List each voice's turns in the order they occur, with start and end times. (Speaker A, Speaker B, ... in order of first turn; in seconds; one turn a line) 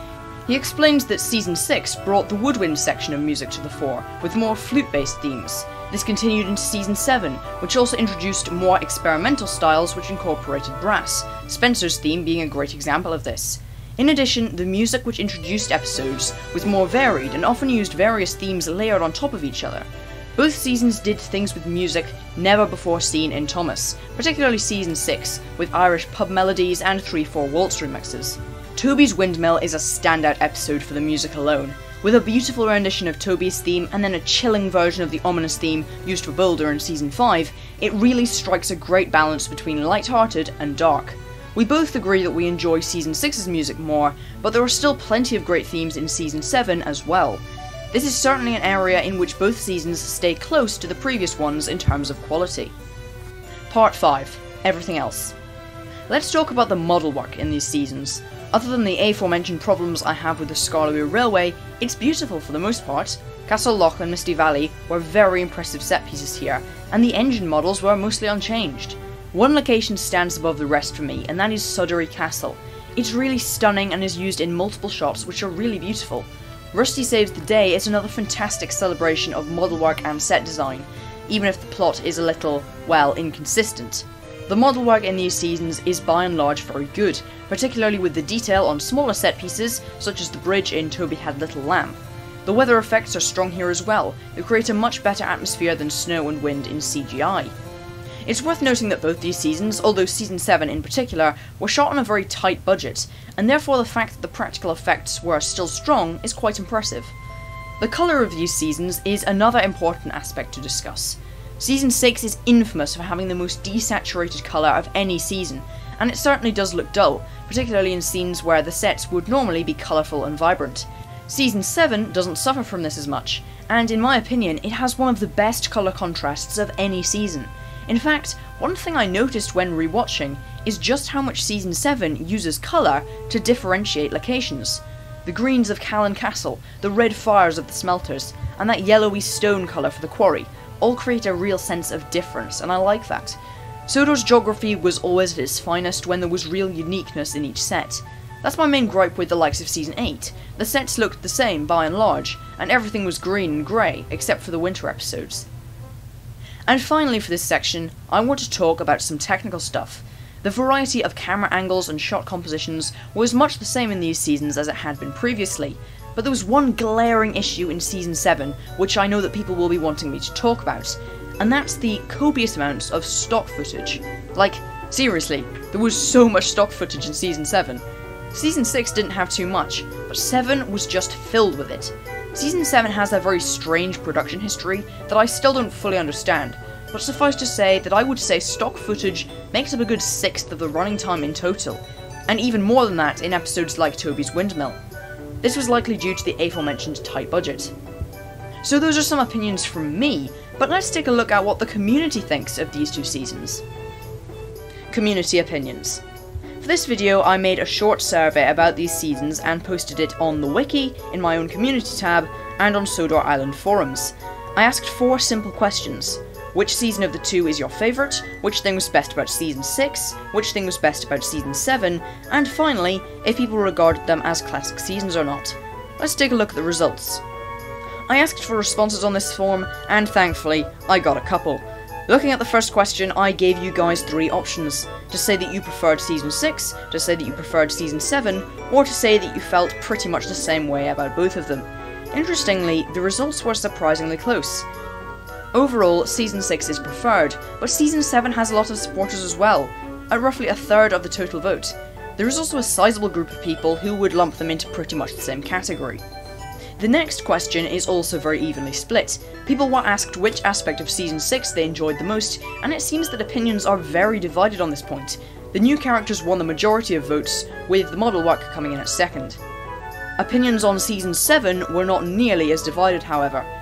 Speaker A: 0.5-52.7
Speaker A: 53.7-55.3
Speaker A: 56.1-97.5
Speaker A: 98.2-107.1
Speaker A: 107.8-155.5
Speaker A: 156.7-194.8
Speaker A: 195.4-197.7
Speaker A: 198.6-203.6
Speaker A: 204.9-206.0
Speaker A: 206.6-227.2
Speaker A: 228.1-244.7
Speaker A: 245.5-256.0
Speaker A: 256.8-269.4
Speaker A: 270.2-273.5